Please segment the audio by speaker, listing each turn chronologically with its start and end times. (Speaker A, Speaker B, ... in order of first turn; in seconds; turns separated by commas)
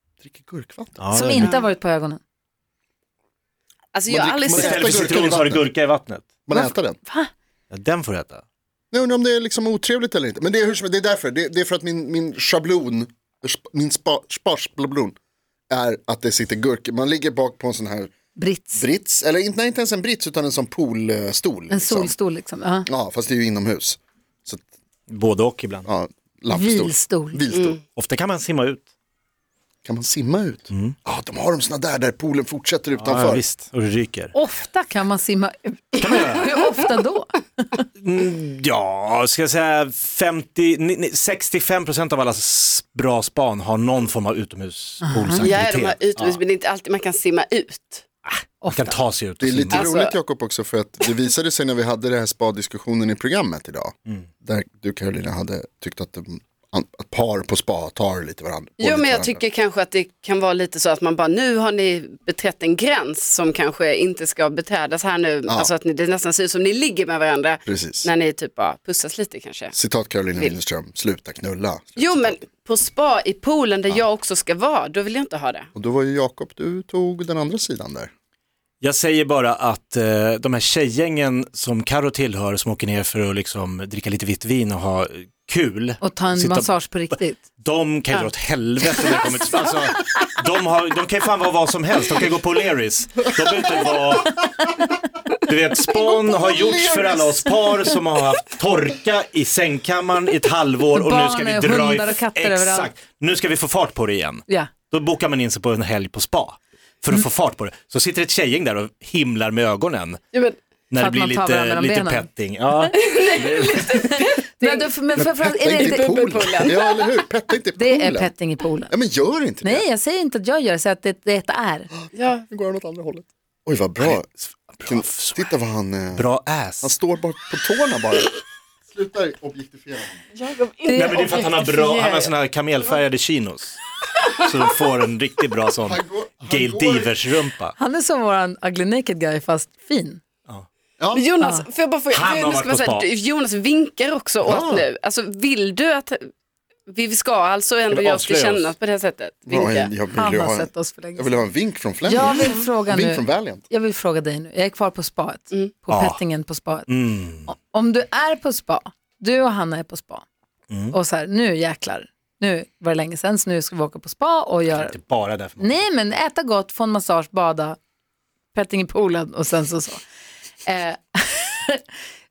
Speaker A: 0.2-1.0, Speaker B: 1.0-1.5, Speaker C: 1.1-2.2, Speaker D: 3.9-5.2, Speaker A: 4.1-5.7, Speaker B: 4.5-6.4, Speaker A: 6.5-7.0, Speaker C: 6.5-7.3, Speaker B: 7.7-8.4, Speaker A: 8.9-15.2, Speaker A: 15.7-18.1, Speaker C: 18.4-18.9, Speaker A: 18.8-22.1, Speaker C: 21.7-22.9, Speaker A: 22.9-24.6, Speaker B: 25.1-25.9, Speaker A: 25.9-27.8, Speaker C: 26.5-27.4, Speaker D: 27.5-27.8, Speaker B: 27.9-28.9, Speaker A: 29.8-33.4, Speaker B: 33.0-34.3, Speaker C: 34.3-37.8, Speaker B: 36.0-36.6, Speaker B: 38.0-46.4, Speaker C: 45.0-45.5, Speaker D: 45.4-48.4, Speaker C: 48.6-49.0, Speaker B: 48.7-49.9, Speaker A: 49.4-59.4, Speaker D: 49.7-50.1, Speaker D: 58.8-69.7, Speaker A: 65.5-65.7, Speaker A: 67.7-68.1, Speaker A: 69.7-72.4, Speaker D: 72.0-75.7, Speaker A: 75.7-78.1, Speaker B: 78.8-86.7, Speaker C: 86.0-87.4, Speaker B: 87.6-94.5, Speaker B: 95.5-110.2, Speaker A: 95.9-97.6, Speaker C: 100.9-102.9, Speaker D: 110.3-110.6, Speaker B: 110.9-113.7, Speaker C: 110.9-112.9, Speaker D: 112.9-114.9, Speaker C: 113.8-116.7, Speaker A: 115.2-118.3, Speaker D: 115.7-117.2, Speaker C: 117.8-118.9, Speaker A: 118.9-119.8, Speaker C: 119.6-121.9, Speaker A: 122.0-124.3, Speaker D: 122.1-122.5, Speaker B: 124.7-125.5, Speaker A: 124.8-126.3, Speaker B: 126.1-126.9, Speaker A: 126.8-130.2, Speaker D: 130.3-132.3, Speaker C: 130.8-131.8, Speaker B: 130.9-133.8, Speaker B: 134.3-137.7, Speaker A: 135.8-137.1, Speaker C: 137.8-140.2, Speaker A: 141.0-141.2, Speaker D: 141.1-146.3, Speaker B: 142.1-143.1, Speaker A: 144.4-144.9, Speaker D: 146.9-149.9, Speaker B: 147.9-148.7, Speaker A: 149.5-153.6, Speaker C: 150.1-151.4, Speaker C: 152.0-156.9, Speaker D: 152.2-152.7, Speaker D: 155.5-155.8, Speaker B: 155.9-156.2, Speaker B: 156.9-157.5, Speaker C: 157.4-160.2, Speaker B: 160.7-160.9, Speaker C: 160.9-164.9, Speaker B: 164.7-165.8, Speaker C: 165.6-167.8, Speaker C: 168.5-170.0, Speaker C: 170.7-171.9